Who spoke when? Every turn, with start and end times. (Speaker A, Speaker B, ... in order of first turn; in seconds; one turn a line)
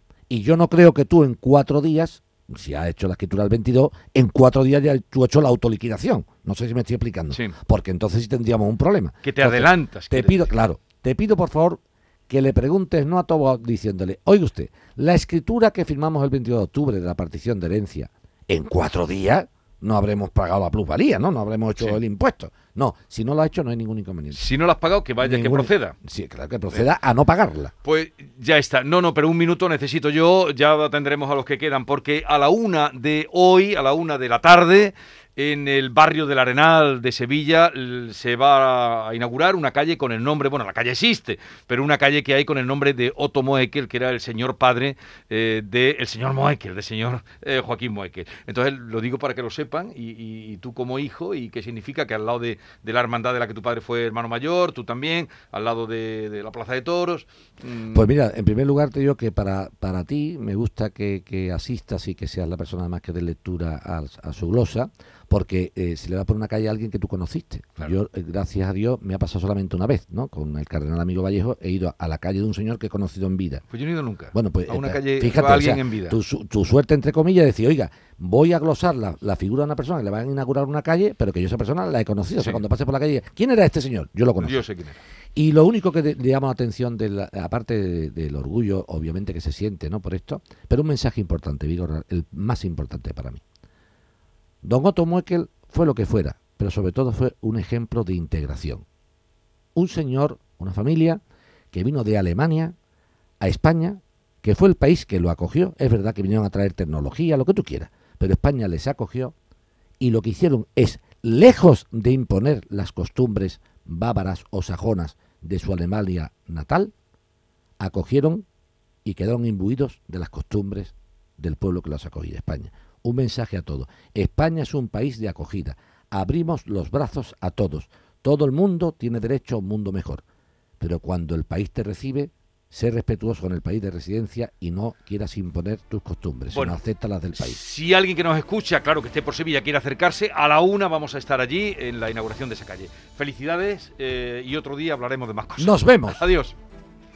Speaker A: 0.3-24.4
Speaker B: 9.2-10.5
Speaker B: 24.3-25.9
Speaker A: 25.2-27.7
Speaker B: 27.8-58.1
Speaker A: 57.9-73.7
Speaker B: 73.7-76.2
Speaker A: 74.3-84.6
Speaker B: 82.4-82.6
Speaker B: 84.4-85.0
Speaker A: 85.3-93.4
Speaker A: 94.6-98.8
Speaker A: 99.8-101.2
Speaker A: 101.7-102.8
Speaker A: 103.4-109.3
Speaker A: 110.0-116.9
Speaker A: 117.8-118.5
Speaker A: 119.0-130.2
Speaker A: 130.8-137.6
Speaker B: 136.5-136.8
Speaker B: 137.4-146.6
Speaker A: 145.6-146.2